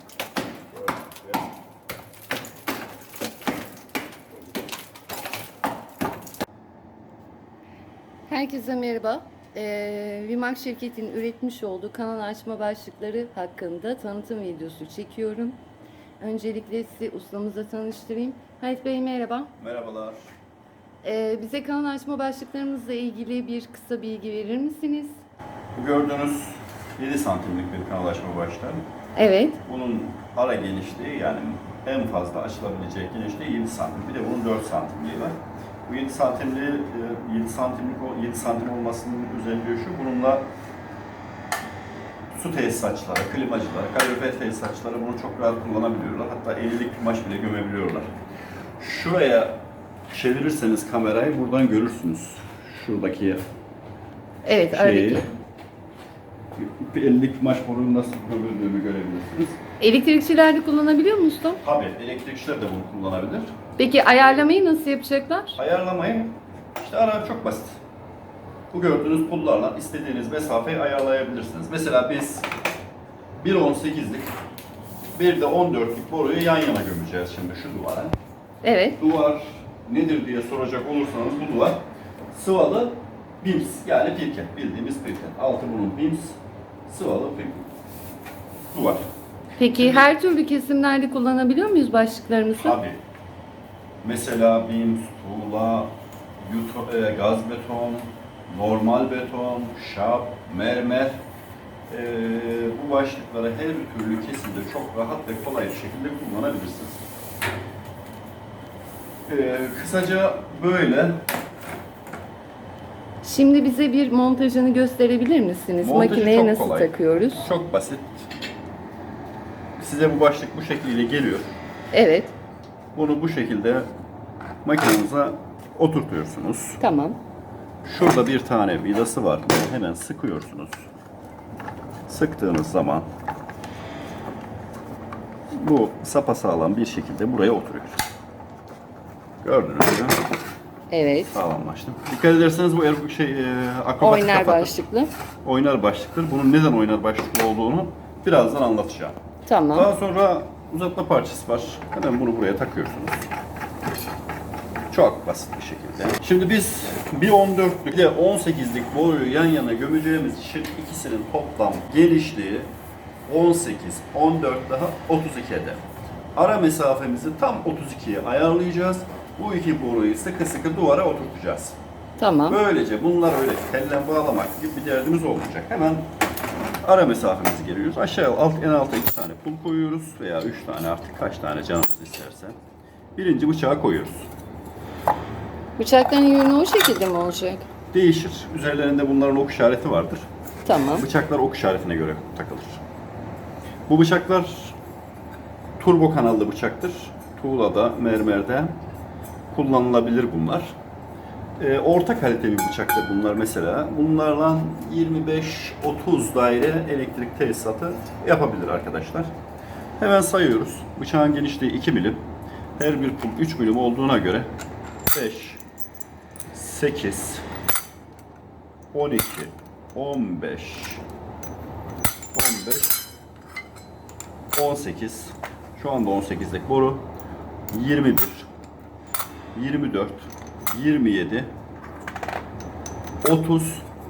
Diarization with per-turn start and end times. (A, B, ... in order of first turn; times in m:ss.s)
0:00.7-0:01.5 A
0:08.3-0:15.6 B
0:16.2-0:19.5 B
0:19.6-0:20.2 A
0:21.0-0:25.2 B
0:25.8-0:28.8 A
0:29.2-0:29.6 B
0:29.6-0:40.5 A
0:42.3-0:48.1 A
0:48.8-0:53.4 A
0:54.4-0:55.3 B
0:54.7-0:55.2 A
0:56.6-0:59.6 A
0:59.8-1:01.6 B
1:01.6-1:03.6 A
1:03.8-1:05.6 B
1:05.6-1:07.8 A
1:08.7-1:12.5 A
1:13.4-1:14.3 A
1:15.2-1:18.1 A
1:18.6-1:19.0 B
1:19.0-1:27.7 A
1:28.7-1:29.0 A
1:29.6-1:32.8 B
1:29.8-1:30.0 A
1:32.6-1:33.0 A
1:34.0-1:41.2 A
1:41.9-1:47.0 A
1:49.3-1:51.2 A
1:53.2-1:57.5 B
1:55.8-1:58.3 A
1:59.8-2:01.6 A
2:01.9-2:02.4 B
2:03.0-2:03.9 A
2:04.6-2:06.8 A
2:06.8-2:07.2 B
2:07.8-2:10.8 A
2:12.1-2:13.1 A
2:15.5-2:18.0 A
2:19.4-2:20.2 A
2:20.9-2:21.4 B
2:21.3-2:24.7 A
2:24.0-2:25.1 B
2:25.4-2:29.2 A
2:29.5-2:29.9 B
2:29.8-2:33.2 A
2:34.9-2:42.7 A
2:43.3-2:45.8 A
2:46.4-2:51.8 A
2:52.2-2:52.6 B
2:52.5-2:56.1 A
2:56.8-3:02.6 A
3:03.2-3:04.3 A
3:05.8-3:07.6 B
3:07.9-3:10.2 A
3:10.7-3:11.0 B
3:11.0-3:12.8 A
3:13.9-3:14.8 A
3:15.8-3:18.8 A
3:19.5-3:20.7 A
3:21.6-3:29.3 A
3:30.0-3:32.2 A
3:32.8-3:34.5 A
3:35.1-3:35.6 A
3:36.5-3:37.4 A
3:38.9-3:41.0 A
3:42.3-3:43.0 A
3:44.5-3:47.1 A
3:47.7-3:48.5 A
3:49.5-3:51.5 A
3:53.2-3:53.8 A